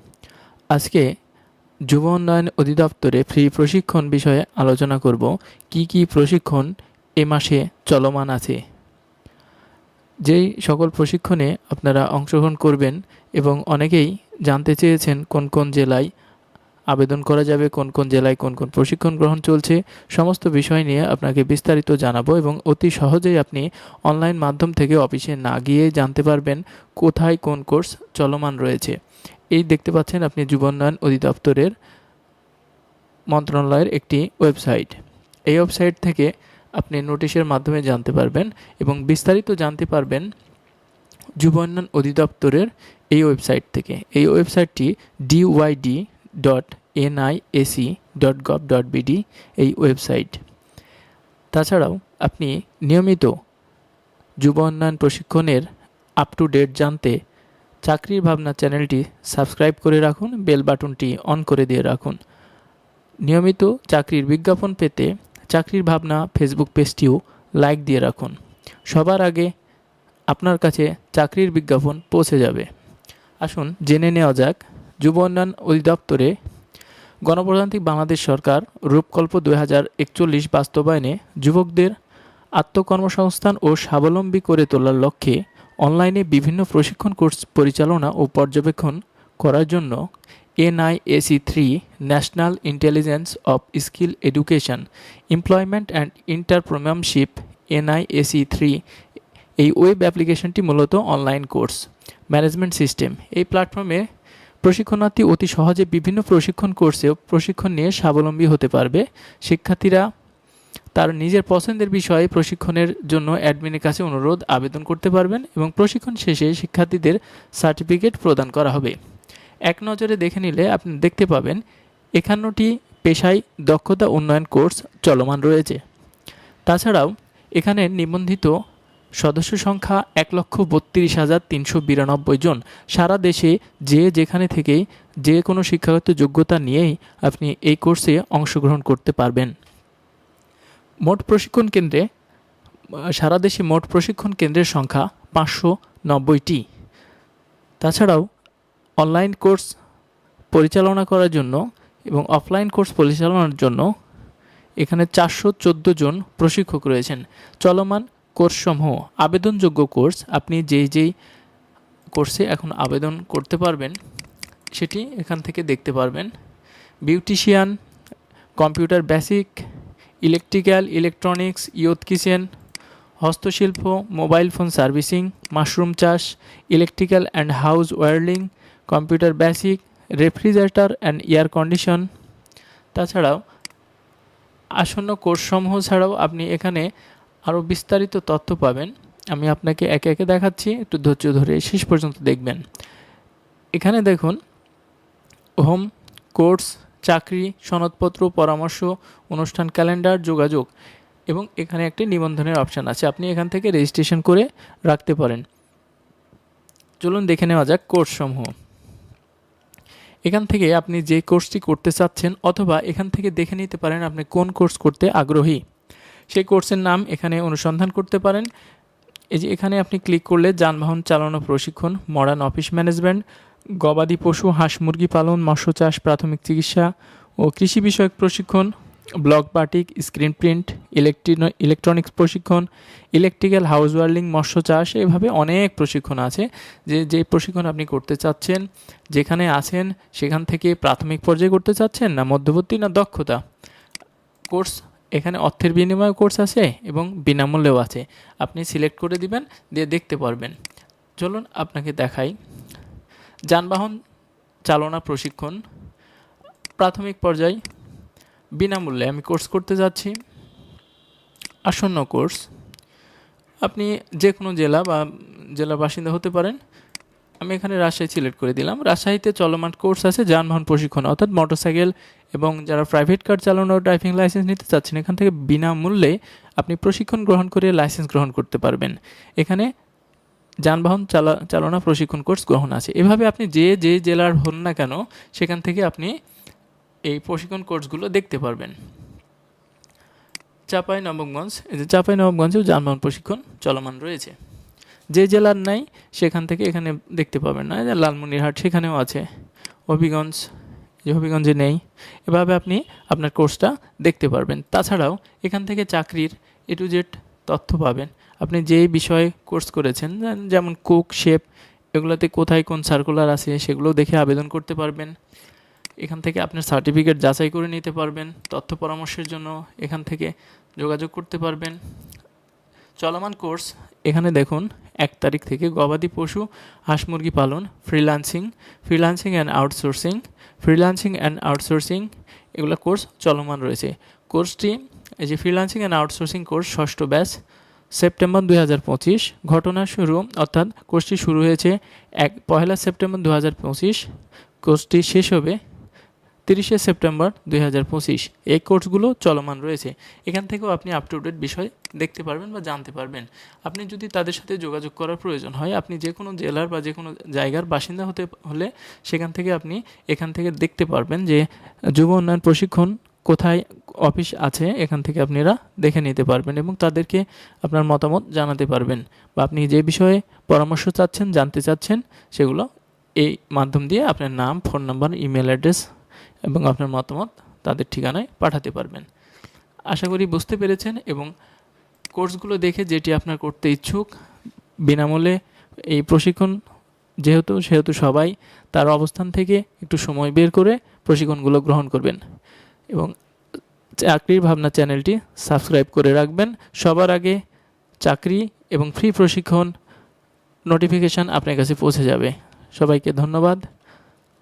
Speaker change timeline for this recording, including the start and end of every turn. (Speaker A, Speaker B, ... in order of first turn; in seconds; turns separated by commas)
Speaker A: 0.7-1.1, Speaker A: 1.9-8.6, Speaker A: 10.2-16.1, Speaker A: 16.9-29.0, Speaker A: 29.5-31.7, Speaker A: 33.3-35.0, Speaker A: 35.5-40.3, Speaker A: 41.4-50.4, Speaker A: 51.5-53.3, Speaker A: 54.4-55.6, Speaker A: 56.2-57.1, Speaker A: 57.8-62.2, Speaker A: 63.2-68.3, Speaker A: 68.9-69.5, Speaker A: 70.3-72.7, Speaker A: 73.4-76.3, Speaker A: 77.2-81.9, Speaker A: 82.6-90.0, Speaker A: 90.6-98.8, Speaker A: 99.6-104.0, Speaker A: 104.6-110.0, Speaker A: 110.9-118.9, Speaker A: 119.7-121.6, Speaker A: 122.2-125.8, Speaker A: 126.7-128.5, Speaker A: 129.2-139.5, Speaker A: 141.0-142.0, Speaker A: 143.1-146.6, Speaker A: 147.8-148.2, Speaker A: 149.0-149.7, Speaker A: 150.5-151.6, Speaker A: 152.1-153.9, Speaker A: 154.8-161.1, Speaker A: 162.1-164.0, Speaker A: 164.7-166.3, Speaker A: 167.1-167.8, Speaker A: 168.6-169.6, Speaker A: 170.2-172.5, Speaker A: 173.2-182.1, Speaker A: 182.9-183.4, Speaker A: 184.8-186.9, Speaker A: 187.5-192.6, Speaker A: 193.8-194.4, Speaker A: 195.6-200.7, Speaker A: 201.3-205.4, Speaker A: 207.0-208.5, Speaker A: 210.3-215.6, Speaker A: 216.3-218.5, Speaker A: 219.3-223.2, Speaker A: 223.8-226.9, Speaker A: 227.4-243.4, Speaker A: 244.5-250.5, Speaker A: 251.2-252.3, Speaker A: 253.5-253.9, Speaker A: 254.7-255.6, Speaker A: 256.8-257.6, Speaker A: 258.6-260.1, Speaker A: 261.6-262.4, Speaker A: 263.6-266.6, Speaker A: 267.4-279.7, Speaker A: 280.6-286.1, Speaker A: 287.1-288.7, Speaker A: 290.7-294.3, Speaker A: 295.1-299.2, Speaker A: 299.9-300.4, Speaker A: 301.1-311.4, Speaker A: 311.9-315.1, Speaker A: 316.0-321.8, Speaker A: 323.0-337.3, Speaker A: 337.9-344.0, Speaker A: 344.6-345.6, Speaker A: 346.4-372.6, Speaker A: 373.2-375.8, Speaker A: 376.5-379.1, Speaker A: 379.9-381.3, Speaker A: 382.1-384.1, Speaker A: 384.9-385.4, Speaker A: 385.9-386.6, Speaker A: 387.2-392.2, Speaker A: 394.0-397.4, Speaker A: 398.0-399.7, Speaker A: 400.7-403.6